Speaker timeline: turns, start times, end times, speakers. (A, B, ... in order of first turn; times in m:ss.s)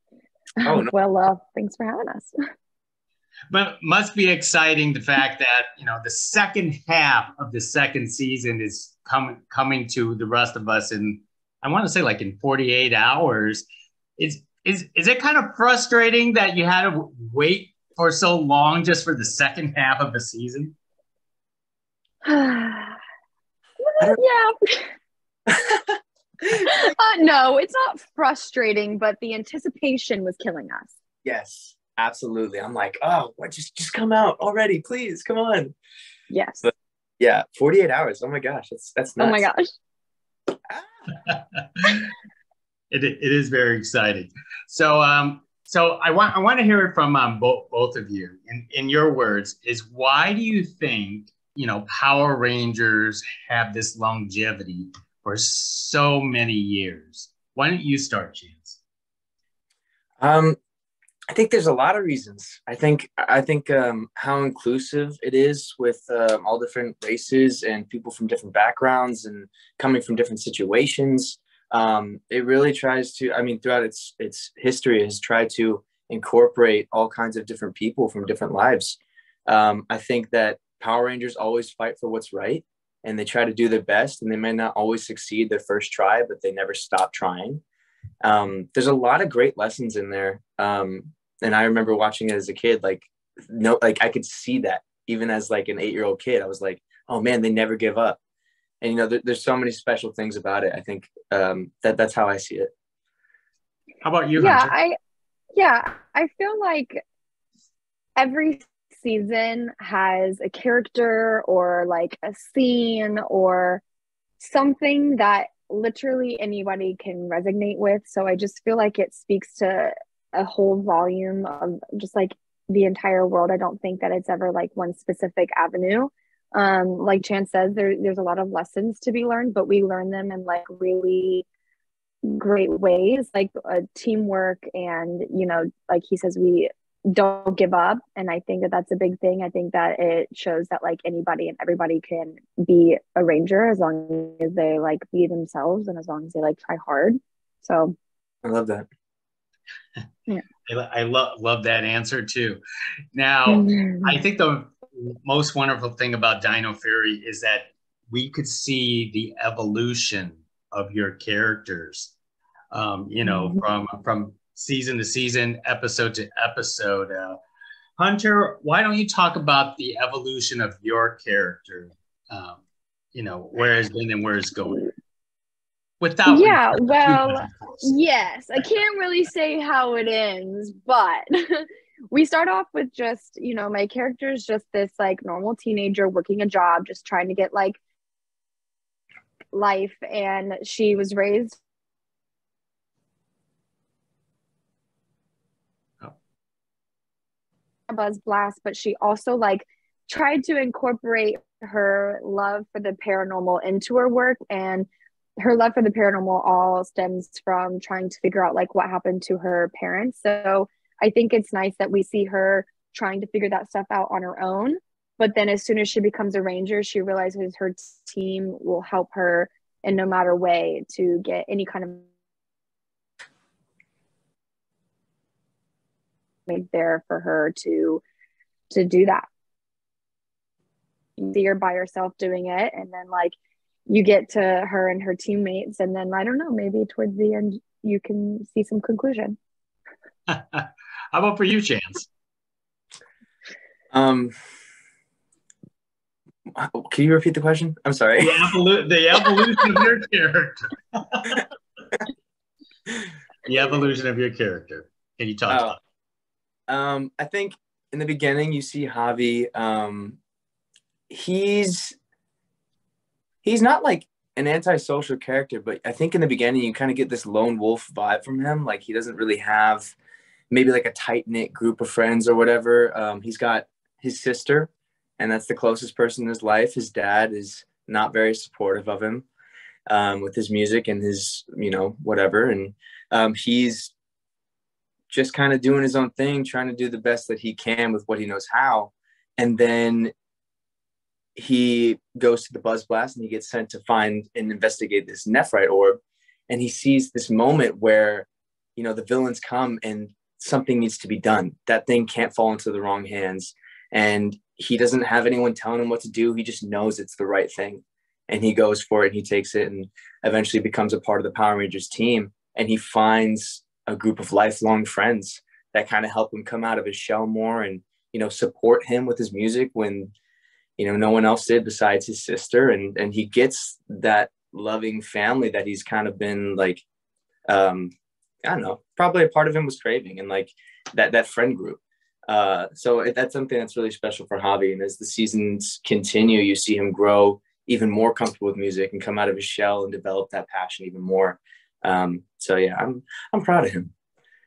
0:00.6-0:02.4 A
0:00.6-0:00.9 B
0:03.5-0:13.6 C
0:14.2-0:20.8 C
0:22.2-0:23.0 A
0:23.8-0:24.9 A
0:25.5-0:25.9 B
0:26.5-0:30.9 A
0:31.2-0:35.8 B
0:36.3-0:36.7 A
0:36.6-0:39.4 B
0:39.2-0:39.7 A
0:41.3-0:42.1 C
0:42.9-0:58.8 C
1:00.2-1:00.6 B
1:01.3-1:27.6 B
1:28.2-1:38.2 B
1:38.8-1:42.7 B
1:44.0-1:44.7 C
1:44.4-1:45.0 A
1:45.6-1:47.0 A
1:48.2-1:53.8 A
1:54.4-2:11.5 A
2:12.2-2:28.0 A
2:28.4-2:28.9 B
2:30.7-2:32.6 C
2:33.1-2:42.1 C
2:33.5-2:34.2 A
2:42.7-2:47.4 C
2:43.2-2:43.6 A
2:48.0-2:52.6 C
2:53.1-2:54.9 C
2:56.0-2:58.0 C
2:56.3-3:07.8 A
3:09.5-3:11.6 A
3:17.9-3:24.9 A
3:25.4-3:42.1 A
3:46.5-3:48.0 A
3:48.7-3:49.3 A
3:51.2-3:53.4 A
3:53.9-3:59.4 A
4:00.3-4:02.1 C
4:03.9-4:04.4 B
4:06.5-4:08.4 B
4:08.2-4:11.4 C
4:13.4-4:15.8 C
4:15.5-4:15.8 B
4:16.7-4:20.2 B
4:21.1-4:22.0 B
4:23.4-4:30.0 B
4:30.5-4:39.3 B
4:39.9-4:43.9 B
4:45.1-4:50.1 B
4:51.4-5:20.1 B
5:20.8-5:26.8 B
5:27.5-5:43.9 B